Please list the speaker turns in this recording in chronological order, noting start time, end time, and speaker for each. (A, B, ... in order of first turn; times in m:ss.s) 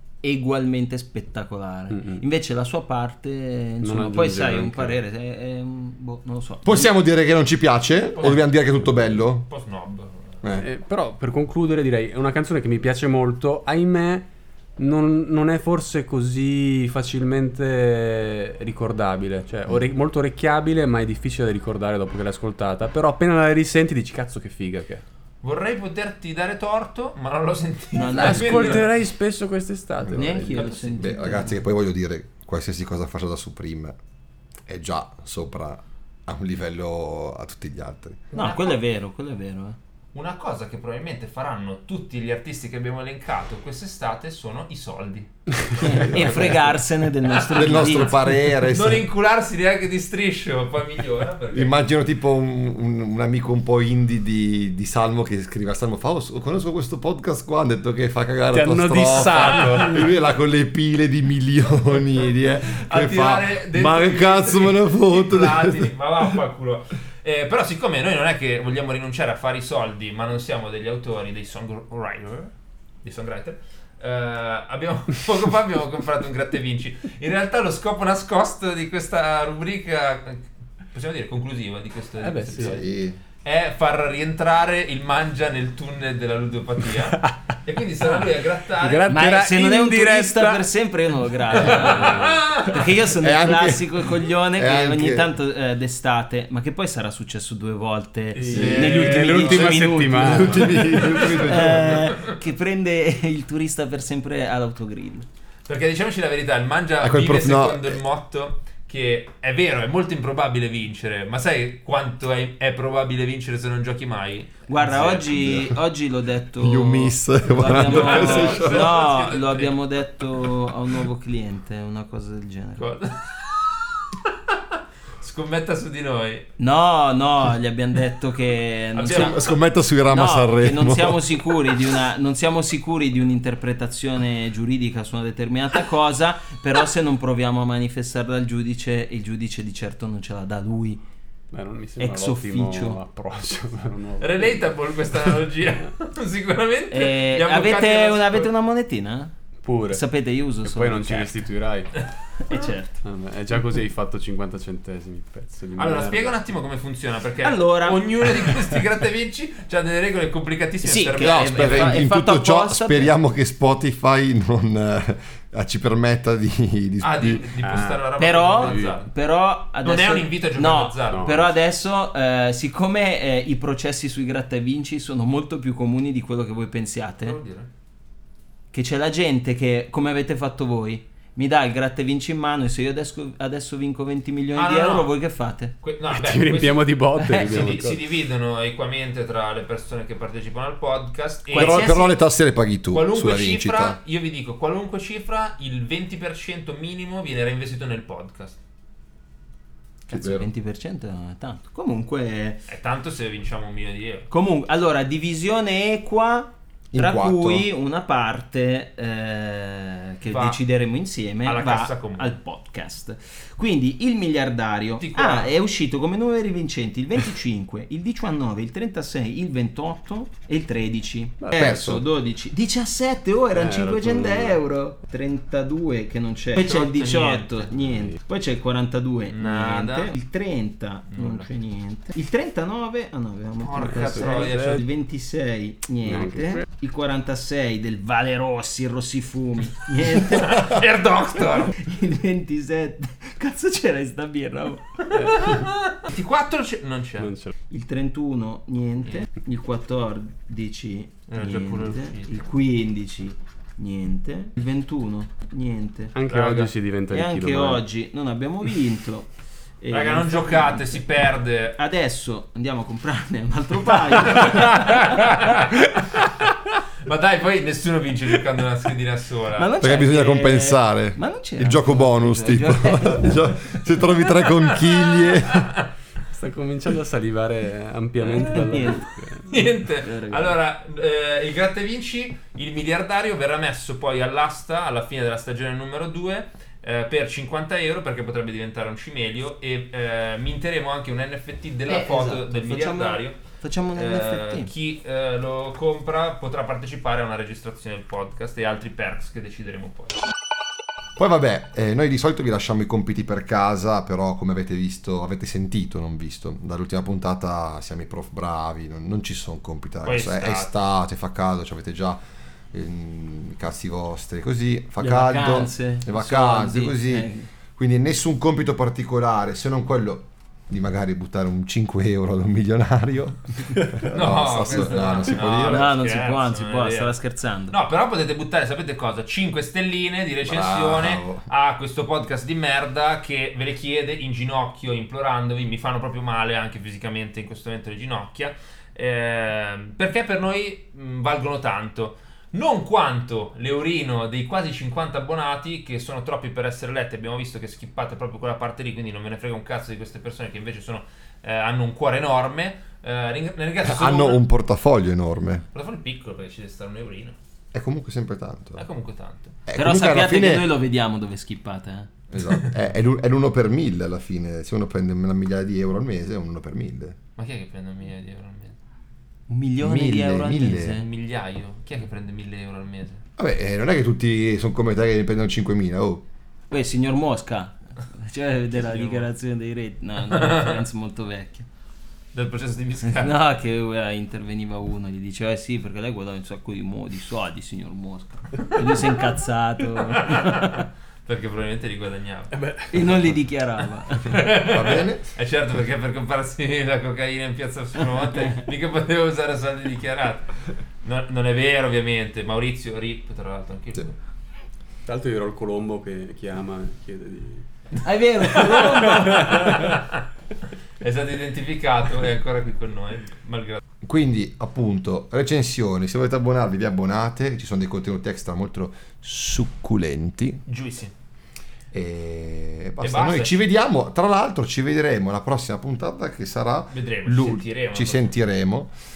0:00.2-0:06.9 A
0:01.9-0:02.2 B
0:03.8-0:05.0 B
0:06.6-0:09.5 C
0:08.1-0:08.5 D
0:09.5-0:10.4 D
0:10.6-0:25.0 B
0:25.4-0:28.9 D
0:28.0-0:28.9 A
0:28.1-0:30.6 B
0:30.0-0:34.0 C
0:30.1-0:31.6 A
0:30.5-0:31.1 D
0:34.7-0:38.2 C
0:38.3-0:38.8 D
0:38.3-0:39.8 A
0:40.1-0:46.6 D
0:45.8-0:48.3 A
0:45.9-0:46.5 C
0:47.2-0:51.8 D
0:47.5-0:49.1 C
0:51.5-1:05.9 C
0:58.5-1:00.2 B
0:59.2-1:00.1 D
1:02.6-1:12.5 D
1:13.0-1:22.9 D
1:22.2-1:22.8 B
1:22.6-1:23.2 C
1:23.4-1:29.2 D
1:28.8-1:30.7 B
1:29.1-1:45.3 A
1:31.5-1:32.6 B
1:31.5-1:32.8 D
1:33.2-1:35.3 C
1:38.4-1:41.0 B
1:38.4-1:39.7 D
1:38.5-1:42.1 C
1:40.8-1:42.4 D
1:45.7-1:55.4 D
1:47.0-1:48.0 C
1:54.7-2:02.9 A
1:55.3-1:55.8 C
1:56.6-1:59.1 C
1:57.6-1:59.8 D
2:02.8-2:04.6 D
2:05.2-2:06.5 D
2:06.6-2:09.4 A
2:09.0-2:09.5 D
2:09.1-2:11.5 C
2:10.1-2:21.0 A
2:21.5-2:24.7 B
2:22.0-2:23.0 A
2:24.2-2:28.5 D
2:26.9-2:29.3 A
2:29.6-2:30.0 B
2:29.9-2:31.4 A
2:30.6-2:31.9 B
2:32.4-2:33.0 A
2:33.0-2:36.4 B
2:35.8-2:42.0 D
2:37.4-2:38.5 A
2:40.8-2:43.1 A
2:41.2-2:47.5 C
2:47.0-2:49.1 D
2:47.6-2:49.0 B
2:48.2-2:57.4 A
2:49.8-2:51.5 D
2:51.1-2:51.5 B
2:57.2-2:57.7 D
2:58.7-3:05.7 A
3:04.6-3:05.1 D
3:05.8-3:11.9 D
3:06.1-3:08.0 B
3:07.2-3:07.7 A
3:11.5-3:12.1 A
3:11.5-3:14.0 C
3:12.9-3:18.6 D
3:20.1-3:22.7 A
3:20.1-3:20.5 C
3:22.7-3:24.3 D
3:24.3-4:00.8 A
3:26.9-3:27.7 C
3:30.3-3:30.6 D
3:31.4-3:32.4 D
3:35.0-3:35.5 D
3:41.4-3:41.8 B
3:41.5-3:42.0 C
3:43.5-3:44.6 B
3:46.6-3:47.7 D
3:47.9-3:48.2 B
3:49.3-3:50.1 D
3:51.1-3:51.5 D
3:53.6-3:54.8 D
3:53.8-3:54.8 B
3:56.0-3:56.6 B
4:00.1-4:01.8 D
4:01.6-4:05.0 A
4:05.0-4:07.3 D
4:05.1-4:05.6 B
4:07.2-4:07.5 B
4:07.7-4:16.1 A
4:11.3-4:12.4 D
4:16.1-4:17.8 B
4:16.3-4:16.7 D
4:17.1-4:19.3 A
4:19.8-4:21.0 A
4:19.9-4:21.8 D
4:21.8-4:25.6 A
4:24.0-4:26.3 D
4:27.0-4:29.7 D
4:29.5-4:33.6 A
4:29.8-4:35.7 C
4:34.4-4:35.9 D
4:36.3-4:39.6 B
4:38.3-4:39.1 A
4:39.4-5:00.2 D
4:39.9-4:40.6 A
4:51.9-4:54.7 A
5:01.2-5:12.2 C
5:10.0-5:10.7 D
5:12.7-5:25.9 C
5:15.0-5:17.5 A
5:24.1-5:27.2 D
5:25.5-5:27.8 A
5:27.7-5:54.4 D
5:30.4-5:31.5 C
5:53.8-5:55.6 C
5:55.7-5:57.4 D
5:57.7-5:58.8 C
5:58.8-5:59.6 D
5:59.7-6:00.7 C
5:59.8-6:02.1 A
6:02.3-6:07.2 C
6:07.4-6:08.8 D
6:09.5-6:11.1 A
6:09.8-6:11.0 C
6:11.0-6:13.2 D
6:13.4-6:16.2 C
6:16.7-6:21.7 A
6:18.7-6:19.3 D
6:20.3-6:20.8 D
6:22.3-6:23.4 D
6:23.0-6:30.8 A
6:30.0-6:32.6 D
6:32.5-6:33.0 B
6:32.9-6:34.4 A
6:34.2-6:44.2 D
6:34.5-6:35.3 C
6:45.0-6:47.6 B
6:48.0-6:49.9 A
6:48.9-6:50.0 D
6:51.0-6:53.8 D
6:54.0-7:00.6 C
7:00.7-7:01.1 D
7:01.9-7:08.9 C
7:03.0-7:03.7 D
7:06.9-7:08.4 D